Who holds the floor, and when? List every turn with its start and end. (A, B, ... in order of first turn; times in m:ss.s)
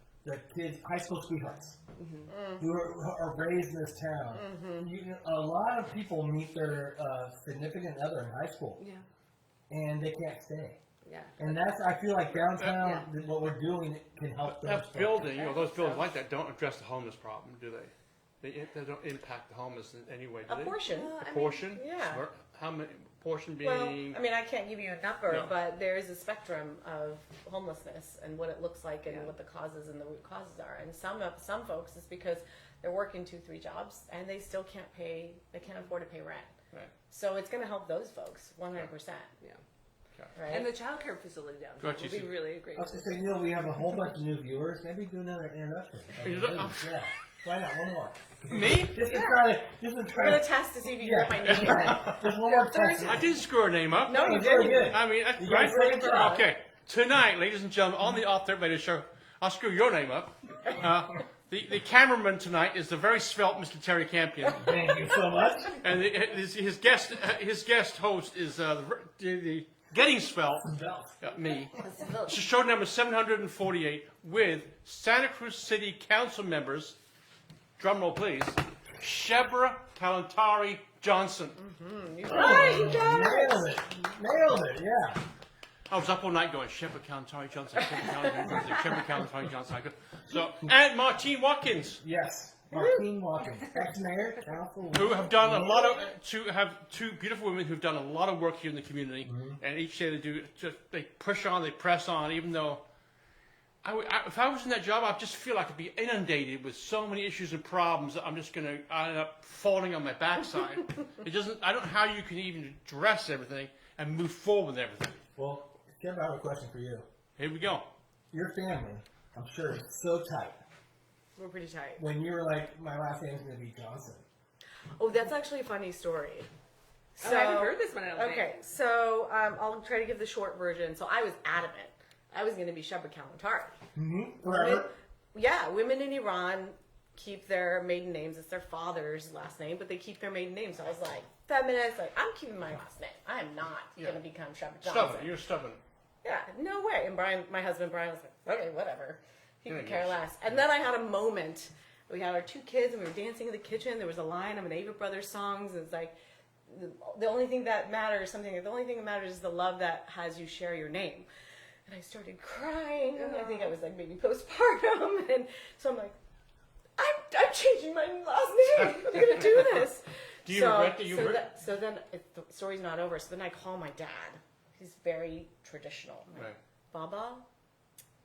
0:00.2-0:01.8 A
0:02.0-0:02.3 B
0:02.3-0:02.6 C
0:02.6-0:08.8 A
0:04.3-0:04.9 C
0:08.8-0:09.0 B
0:09.7-0:10.8 A
0:11.0-0:11.3 B
0:11.4-0:15.3 A
0:12.6-0:12.8 D
0:12.8-0:13.0 B
0:14.4-0:24.2 D
0:15.4-0:16.0 B
0:20.5-0:21.2 C
0:20.8-0:21.7 B
0:21.7-0:22.2 C
0:23.6-0:36.5 C
0:29.1-0:29.3 B
0:37.1-0:39.3 C
0:40.3-0:40.7 C
0:40.5-0:43.2 B
0:41.8-0:42.3 D
0:42.8-0:53.3 A
0:46.2-0:47.0 D
0:48.5-0:49.0 D
0:49.1-0:49.4 C
0:50.1-0:53.3 C
0:51.4-0:52.3 D
0:53.0-1:05.0 D
0:54.0-0:55.0 C
0:54.1-0:56.5 A
0:55.8-0:56.4 C
1:04.6-1:05.8 A
1:05.8-1:11.7 D
1:10.6-1:11.1 A
1:11.8-1:12.4 B
1:12.3-1:17.0 D
1:17.8-1:21.6 D
1:21.6-1:23.7 C
1:22.2-1:25.2 A
1:22.3-1:23.2 B
1:25.9-1:32.0 D
1:32.0-1:36.0 A
1:34.9-1:42.8 D
1:39.2-1:39.6 A
1:43.8-1:55.2 D
1:55.4-1:57.0 A
1:57.4-1:57.8 D
1:58.3-2:00.6 A
2:01.4-2:02.0 C
2:02.0-2:04.2 A
2:05.0-2:06.5 C
2:07.2-2:13.7 C
2:07.2-2:08.6 B
2:13.9-2:14.9 A
2:14.4-2:25.3 C
2:24.8-2:25.8 D
2:26.2-2:36.1 C
2:29.7-2:30.2 D
2:36.7-2:41.3 C
2:41.9-2:46.2 C
2:43.1-2:43.7 B
2:47.0-2:57.4 C
2:50.4-2:51.5 D